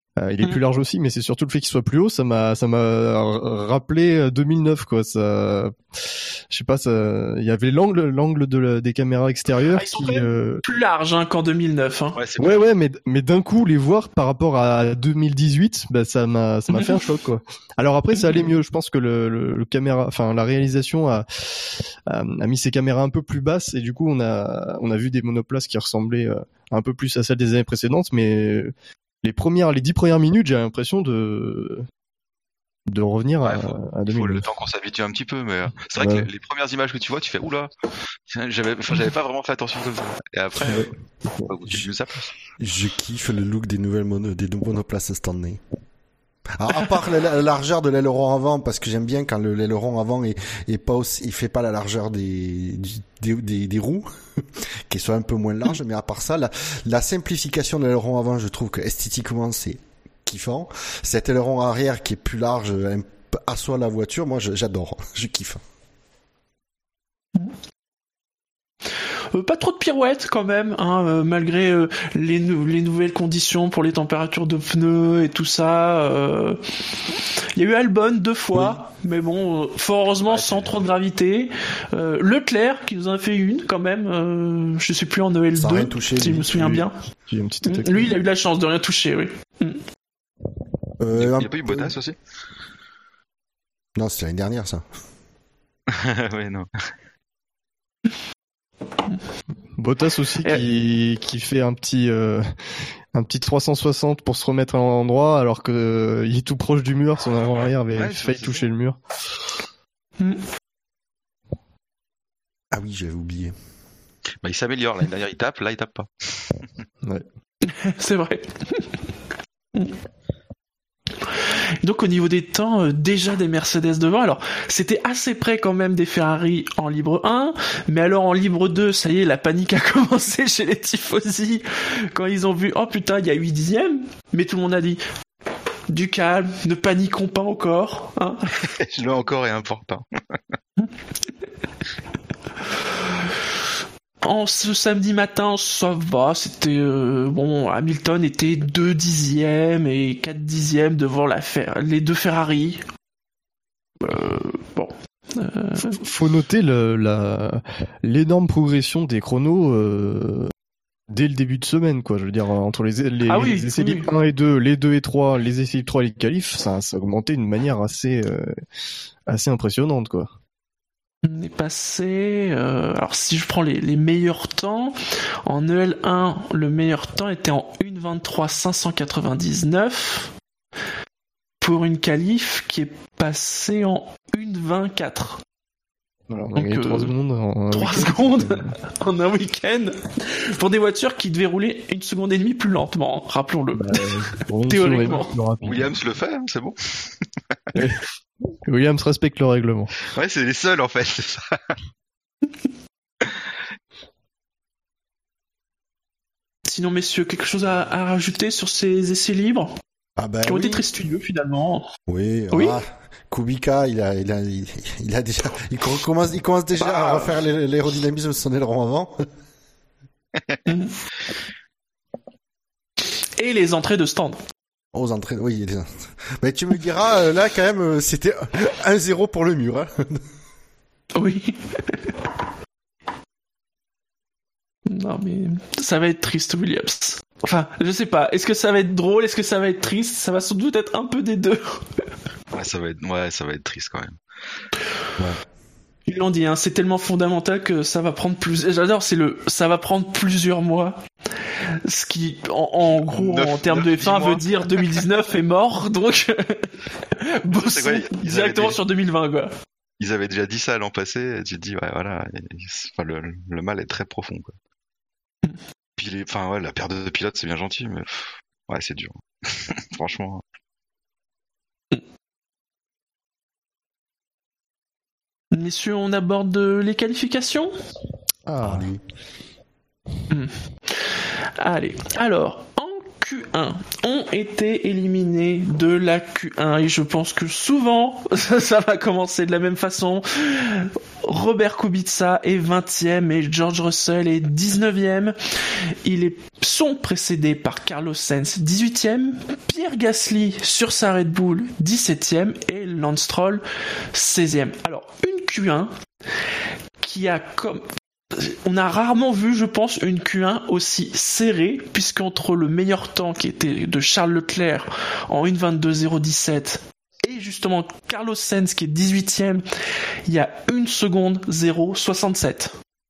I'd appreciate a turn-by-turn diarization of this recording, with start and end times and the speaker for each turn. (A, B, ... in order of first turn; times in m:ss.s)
0:00.2-0:10.6 A
0:09.7-0:12.2 B
0:12.2-0:12.7 C
0:12.4-0:28.7 A
0:16.7-0:17.0 B
0:18.2-0:18.4 B
0:29.2-0:31.9 A
0:32.9-0:34.4 A
0:33.4-0:37.7 C
0:36.0-0:36.3 A
0:38.3-0:40.9 C
0:40.6-0:41.5 A
0:41.4-0:42.3 C
0:42.6-0:45.6 D
0:46.6-1:05.6 D
1:09.3-1:16.6 B
1:17.5-1:26.9 B
1:18.5-1:18.8 D
1:20.3-1:20.7 C
1:25.5-1:26.7 D
1:26.5-1:28.2 A
1:27.6-1:29.8 B
1:31.0-1:31.9 D
1:31.1-1:32.2 C
1:34.0-1:34.8 D
1:35.9-1:36.7 C
1:39.8-1:42.5 A
1:43.1-1:49.0 A
1:47.9-1:48.7 C
1:52.7-1:53.5 D
1:54.4-1:56.6 C
1:57.6-1:58.9 B
2:01.8-2:15.0 B
2:15.9-2:18.5 B
2:18.6-2:20.0 C
2:24.2-2:32.8 B
2:34.0-2:36.0 B
2:35.8-2:40.5 A
2:41.1-2:48.6 A
2:43.3-2:44.1 B
2:49.3-2:50.3 A
2:51.2-3:00.3 B
3:01.6-3:05.4 B
3:06.3-3:08.7 A
3:06.6-3:07.1 B
3:07.7-3:14.1 B
3:13.7-3:16.0 A
3:14.7-3:15.3 B
3:15.6-3:17.3 C
3:17.7-3:18.0 A
3:18.6-3:19.9 A
3:20.1-3:21.8 C
3:26.7-3:29.7 B
3:30.2-3:30.9 D
3:30.4-3:31.9 B
3:32.1-3:39.2 D
3:32.5-3:32.8 B
3:36.8-3:37.3 B
3:40.6-3:40.9 B
3:43.4-3:44.4 B
3:44.9-3:50.2 D
3:51.1-3:52.1 B
3:54.9-4:01.8 B
4:02.5-4:04.2 C
4:06.0-4:11.0 B
4:11.7-4:19.5 B
4:13.1-4:15.0 C
4:17.5-4:18.8 C
4:20.0-4:24.5 C
4:26.0-4:30.4 C
4:35.5-4:37.7 B
4:38.4-4:38.9 A
4:38.6-4:39.0 D
4:40.3-4:55.4 B
4:56.0-5:05.9 B
5:07.0-5:19.6 B
5:20.3-5:22.7 B